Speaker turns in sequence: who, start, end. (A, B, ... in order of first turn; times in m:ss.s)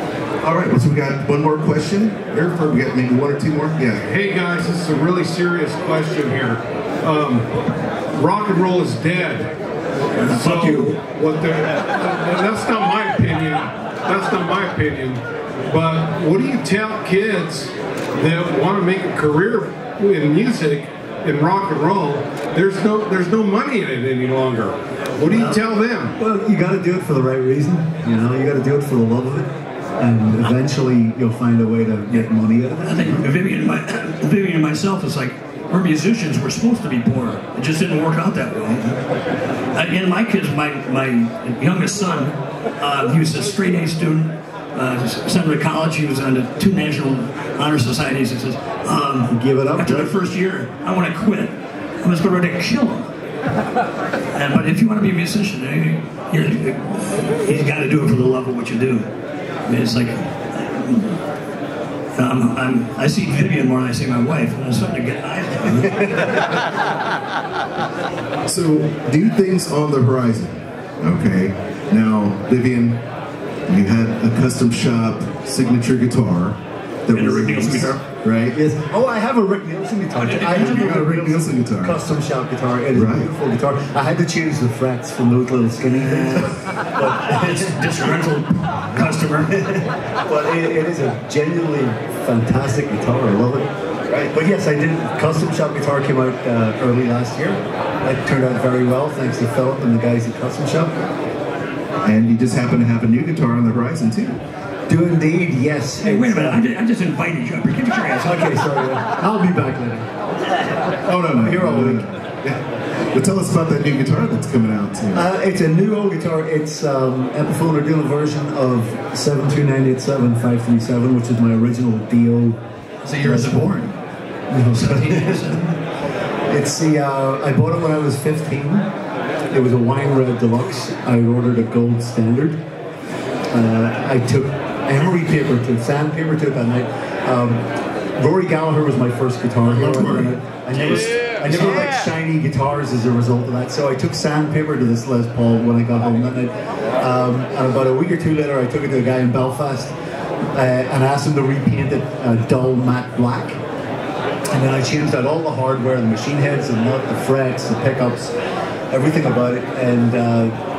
0:00.4-0:04.1 A
0:04.0-0:07.5 B
0:08.1-0:09.5 B
0:10.2-0:11.0 C
0:10.3-0:26.1 B
0:26.2-0:33.3 D
0:32.8-0:39.0 C
0:39.7-0:53.1 C
0:49.3-0:50.1 D
0:54.3-0:59.1 C
0:59.7-1:01.2 C
1:02.2-1:06.2 C
1:05.9-1:06.5 D
1:08.5-1:13.0 A
1:13.7-1:18.6 A
1:17.1-1:18.0 C
1:18.5-1:27.8 D
1:20.2-1:21.1 C
1:20.4-1:22.0 A
1:22.9-1:23.3 A
1:25.9-1:29.6 C
1:29.0-1:33.7 D
1:34.1-1:34.3 A
1:34.3-1:41.0 D
1:42.0-1:44.4 A
1:44.9-1:46.6 D
1:46.0-1:48.7 C
1:48.2-1:50.1 D
1:51.0-1:55.3 A
1:51.2-1:52.1 D
1:55.1-2:02.6 D
2:03.0-2:04.0 C
2:03.2-2:03.8 D
2:04.5-2:05.6 D
2:04.7-2:05.8 C
2:06.5-2:08.9 D
2:09.5-2:12.6 D
2:13.5-2:29.9 D
2:19.6-2:21.9 C
2:30.5-2:33.6 D
2:34.5-2:38.4 D
2:38.9-2:40.5 D